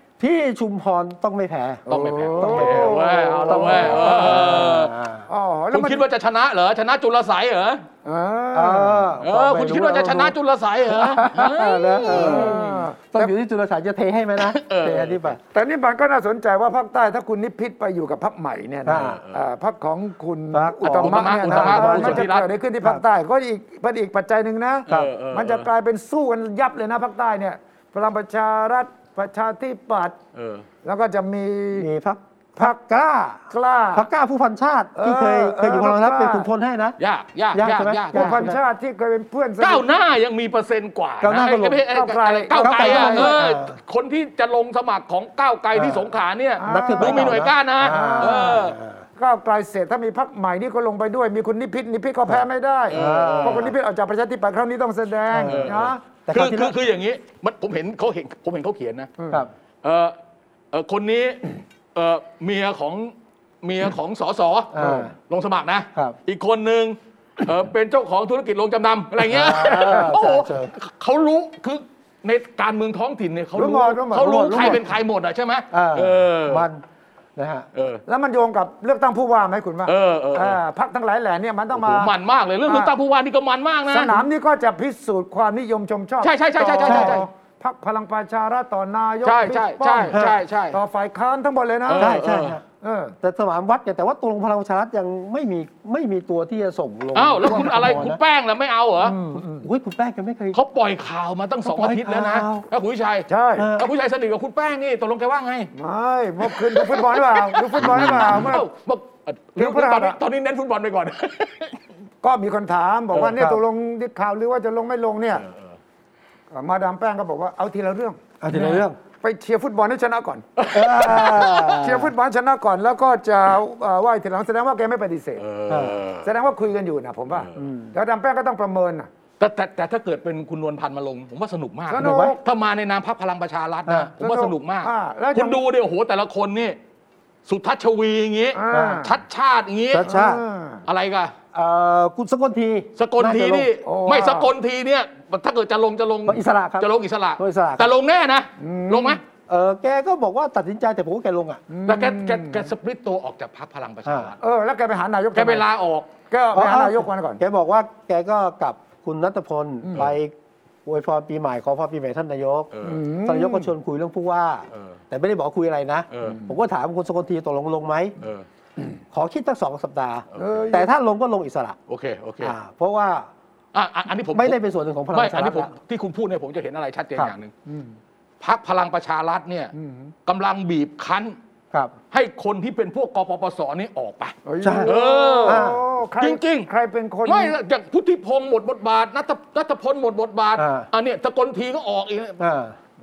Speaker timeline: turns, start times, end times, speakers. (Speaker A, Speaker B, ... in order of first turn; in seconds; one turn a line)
Speaker A: 0.2-1.8
Speaker B: 1.9-4.6
Speaker C: 1.9-4.9
Speaker A: 2.4-5.2
Speaker B: 5.3-6.0
Speaker C: 5.7-7.8
Speaker B: 8.0-9.2
Speaker A: 8.5-10.3
Speaker C: 9.2-12.7
Speaker A: 11.0-15.4
Speaker B: 11.2-11.5
Speaker B: 12.0-13.3
Speaker C: 14.4-15.3
Speaker B: 15.5-30.2
Speaker A: 18.9-19.2
Speaker C: 18.9-19.4
Speaker A: 20.5-22.3
Speaker C: 20.9-22.5
Speaker C: 24.9-25.7
Speaker C: 30.3-30.7
Speaker B: 30.8-31.9
Speaker A: 31.8-33.4
Speaker B: 33.5-34.1
Speaker A: 33.9-37.0
Speaker B: 35.0-36.5
Speaker C: 37.0-38.5
Speaker A: 37.5-38.6
Speaker B: 38.1-39.9
Speaker C: 39.6-48.8
Speaker A: 41.2-41.8
Speaker B: 41.9-43.3
Speaker A: 42.5-43.8
Speaker A: 45.8-46.0
Speaker B: 46.6-56.0
Speaker A: 46.6-49.0
Speaker C: 52.9-53.7
Speaker A: 52.9-53.7
Speaker A: 55.3-56.7
Speaker C: 55.5-59.1
Speaker B: 59.2-59.4
Speaker C: 59.8-60.2
Speaker C: 60.7-76.7
Speaker A: 64.7-65.1
Speaker A: 69.2-70.7
Speaker B: 73.5-74.8
Speaker A: 74.2-74.8
Speaker A: 75.7-76.8
Speaker A: 77.3-77.7
Speaker C: 77.7-78.0
Speaker B: 78.1-82.1
Speaker C: 79.8-80.6
Speaker C: 81.7-84.2
Speaker B: 82.6-82.9
Speaker B: 83.9-92.1
Speaker C: 86.2-87.2
Speaker A: 86.8-87.2
Speaker C: 89.2-90.8
Speaker A: 90.1-90.4
Speaker C: 91.9-92.6
Speaker A: 92.0-92.6
Speaker B: 92.8-93.2
Speaker A: 93.2-98.2
Speaker C: 97.1-99.2
Speaker B: 99.0-99.7
Speaker A: 99.3-100.6
Speaker C: 100.5-105.7
Speaker A: 101.6-102.7
Speaker B: 103.3-103.7
Speaker A: 103.6-103.9
Speaker B: 105.7-108.7
Speaker C: 106.4-111.8
Speaker B: 109.6-110.2
Speaker B: 112.2-115.4
Speaker A: 113.3-113.6
Speaker C: 115.4-115.8
Speaker B: 116.5-118.2
Speaker A: 118.4-119.0
Speaker C: 118.5-118.8
Speaker B: 119.2-120.4
Speaker C: 120.6-121.9
Speaker A: 120.7-122.1
Speaker B: 121.7-125.4
Speaker C: 125.4-126.3
Speaker A: 125.7-126.0
Speaker B: 126.2-129.1
Speaker C: 127.3-127.6
Speaker A: 127.5-127.9
Speaker C: 129.4-136.8
Speaker B: 131.9-132.4
Speaker A: 132.0-132.3
Speaker A: 133.9-134.1
Speaker B: 134.2-135.6
Speaker C: 137.4-140.1
Speaker B: 138.5-139.2
Speaker A: 138.7-139.0
Speaker A: 139.9-140.4
Speaker B: 140.0-140.8
Speaker C: 140.8-141.3
Speaker A: 141.5-143.7
Speaker C: 142.9-149.2
Speaker B: 143.8-144.5
Speaker A: 146.3-147.9
Speaker B: 148.6-149.2
Speaker A: 149.5-151.6
Speaker B: 151.7-152.7
Speaker C: 151.9-154.4
Speaker A: 154.1-154.3
Speaker B: 154.4-155.7
Speaker C: 155.3-156.1
Speaker B: 156.3-157.4
Speaker A: 156.5-160.3
Speaker A: 160.8-162.7
Speaker C: 162.7-163.0
Speaker B: 162.8-163.7
Speaker A: 163.2-168.1
Speaker C: 164.7-165.0
Speaker C: 166.1-166.4
Speaker C: 168.2-168.4
Speaker A: 169.1-171.8
Speaker C: 170.3-170.7
Speaker B: 170.3-170.9
Speaker C: 171.9-172.5
Speaker A: 172.4-173.3
Speaker C: 173.7-174.6
Speaker A: 174.3-175.7
Speaker C: 175.1-177.5
Speaker B: 177.7-178.0
Speaker C: 178.4-179.7
Speaker B: 179.7-180.1
Speaker C: 180.2-181.4
Speaker C: 182.1-185.7
Speaker B: 184.4-187.6
Speaker A: 184.6-185.8
Speaker C: 186.2-186.7
Speaker C: 187.2-192.4
Speaker A: 190.6-190.9
Speaker A: 192.4-192.7